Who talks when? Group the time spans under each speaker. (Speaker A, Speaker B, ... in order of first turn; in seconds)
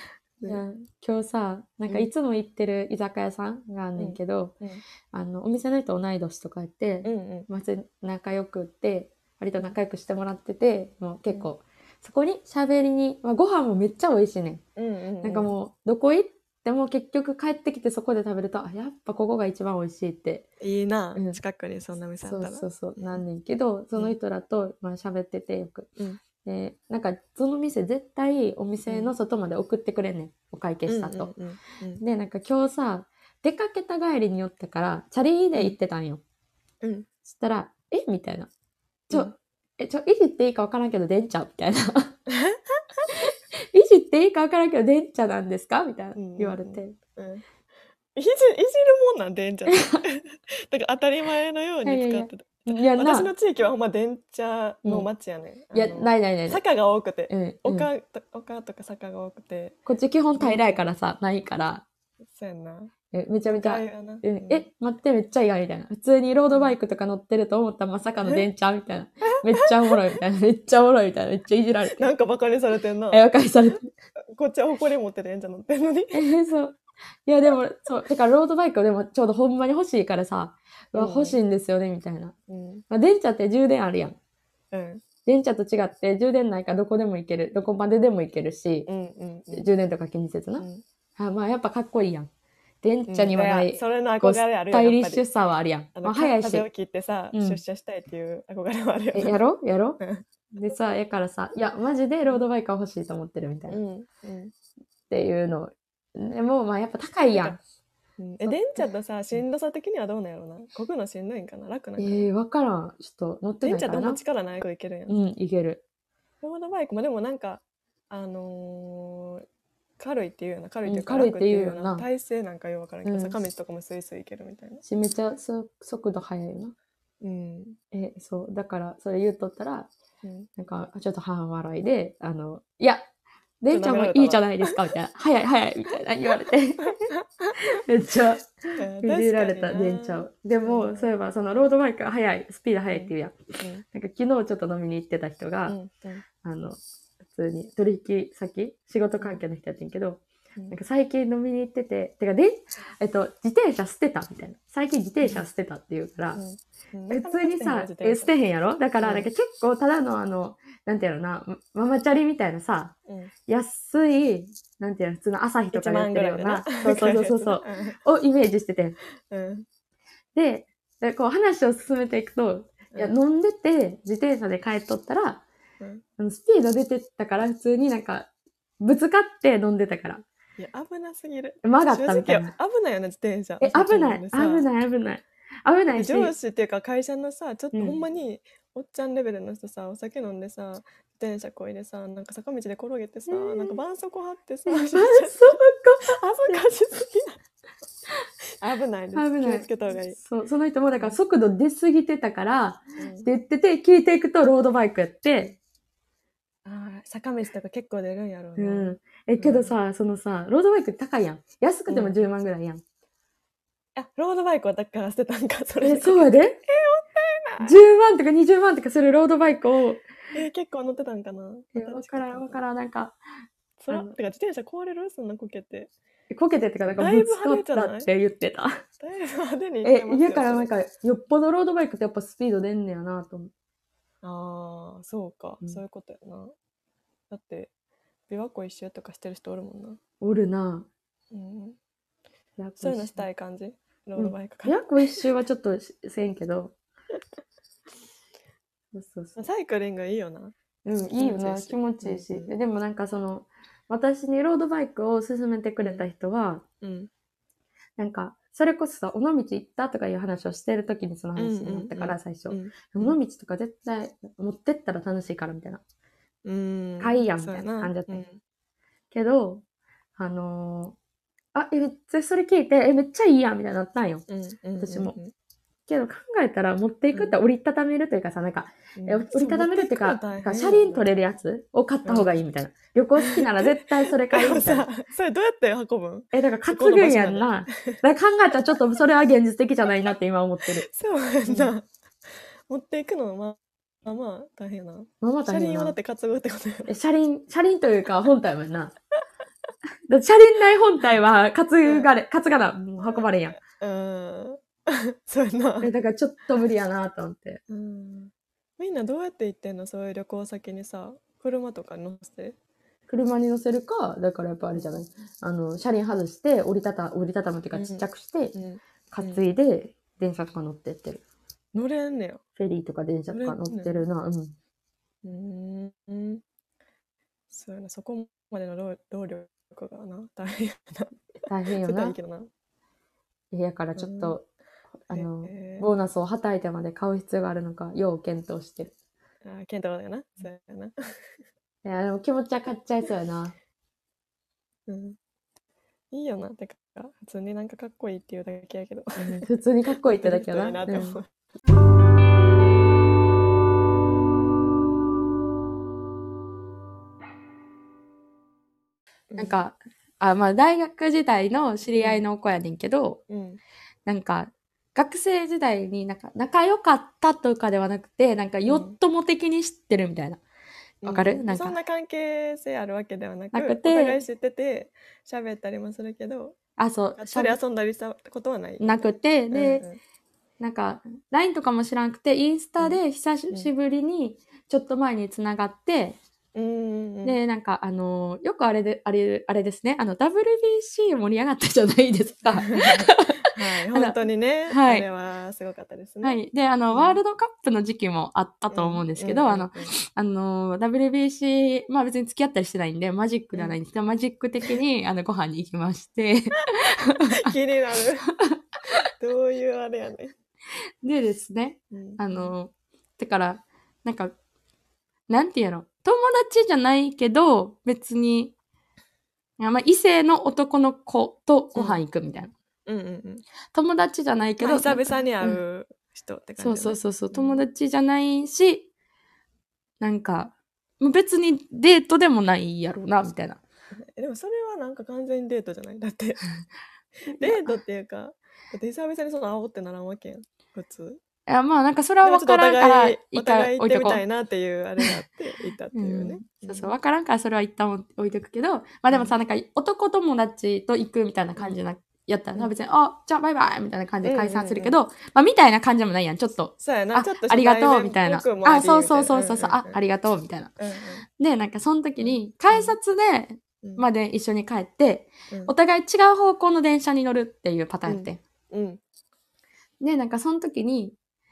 Speaker A: 0.5-4.5, 5.1-14.6, 15.2-20.5, 22.2-25.9, 26.4-31.3, 32.0-36.2, 37.3-38.5, 39.1-42.2, 43.1-47.0, 49.7-50.0, 51.8-53.3, 55.7-56.6, 57.3-57.9, 59.9-61.8, 63.1-72.1, 73.1-73.9, 76.1-82.3, 82.9-84.2, 85.2-88.9, 89.5-92.3, 92.8-96.7, 97.3-97.6, 99.1-100.0, 100.5-103.8, 105.1-107.6, 108.5-108.8, 112.0-114.2, 115.1-115.8, 120.8-122.0, 123.0-123.3, 124.8-126.7, 127.9-129.9, 130.6-133.1, 133.6-145.8, 146.4-146.8, 147.3-156.4, 157.1-162.9, 163.5-168.9, 170.3-175.4, 176.2-178.3, 178.8-180.2, 181.6-182.5, 183.6-186.3, 187.7-188.0, 193.3-193.8, 194.7-196.6, 199.1-205.5, 208.6-212.8, 215.8-216.6, 217.6-220.0, 221.8-223.2, 226.3-228.8, 229.8-233.5, 240.2-240.9, 242.6-243.2, 244.2-246.7, 248.9-249.4, 250.8-256.6, 258.0-265.8, 267.0-268.2, 269.1-269.6, 270.2-270.9, 271.5-274.2, 274.8-275.1, 275.9-284.9, 286.3-290.9, 291.4-291.7, 295.2-295.9, 296.9-298.9, 300.1-303.6, 305.8-307.6, 313.1-318.6, 319.1-321.2, 322.6-324.5, 331.5-332.1, 333.5-334.4, 335.1-338.9, 341.8-343.5, 349.2-351.2, 359.4-363.2, 364.1-370.4, 371.0-371.8, 373.5-374.2, 376.8-377.6, 378.8-379.8, 380.6-386.2, 387.2-394.2, 394.7-395.1, 396.2-407.5, 408.2-409.0, 411.0-414.3, 415.3-418.5, 419.6-422.5, 423.7-425.6, 426.6-428.9, 430.0-433.6, 437.3-437.7, 441.5-444.2, 445.9-460.7, 461.4-468.4, 470.0-471.1
Speaker B: 4.0-4.8, 7.0-7.5, 14.8-15.5, 20.6-23.2, 28.9-29.1, 30.9-32.0, 36.8-37.1, 42.3-43.1, 46.1-47.4, 48.1-59.8, 60.4-60.8, 62.3-62.9, 63.5-64.6, 69.4-70.0, 71.9-73.2, 74.3-76.2, 80.9-81.4, 82.5-82.8, 84.7-85.0, 88.9-89.7, 93.1-95.2, 96.0-99.4, 100.0-100.2, 103.7-104.5, 108.2-112.3, 113.6-115.2, 116.4-119.4, 120.0-124.8, 127.2-127.8, 130.2-130.5, 133.7-134.7, 136.8-137.6, 138.8-141.1, 142.9-143.8, 145.7-146.2, 155.2-155.5, 156.3-158.3, 159.0-159.3, 165.7-168.0, 169.3-169.7, 180.6-184.7, 185.9-197.4, 198.6-200.2, 203.0-203.2, 206.6-209.7, 211.9-212.2, 213.9-217.8, 220.3-222.6, 223.8-225.9, 226.9-228.1, 229.0-230.7, 234.2-236.5, 237.3-237.7, 238.3-240.0, 241.3-241.8, 242.8-244.9, 249.4-250.5, 251.2-252.5, 255.8-256.1, 256.8-257.1, 261.4-263.2, 266.4-268.4, 274.3-275.3, 278.9-281.1, 282.0-282.3, 283.2-288.0, 290.8-291.9, 292.7-296.9, 303.0-305.9, 307.7-312.6, 314.7-315.0, 317.7-319.4, 321.7-322.4, 323.3-324.0, 325.2-326.4, 327.5-332.5, 334.0-334.4, 335.1-335.9, 339.4-340.9, 344.9-345.2, 346.1-349.4, 350.0-351.3, 359.3-359.6, 361.9-362.2, 363.3-363.6, 368.6-368.9, 371.0-376.6, 377.2-380.0, 382.8-383.7, 386.5-387.4, 392.6-396.4, 396.9-397.2, 398.7-399.9, 407.3-408.3, 409.2-410.3, 411.9-412.5, 422.9-423.4, 424.6-427.6, 434.1-436.4, 437.4-441.2, 442.2-446.9, 454.2-454.9, 456.8-460.0, 460.8-461.2, 462.2-462.9, 468.1-469.0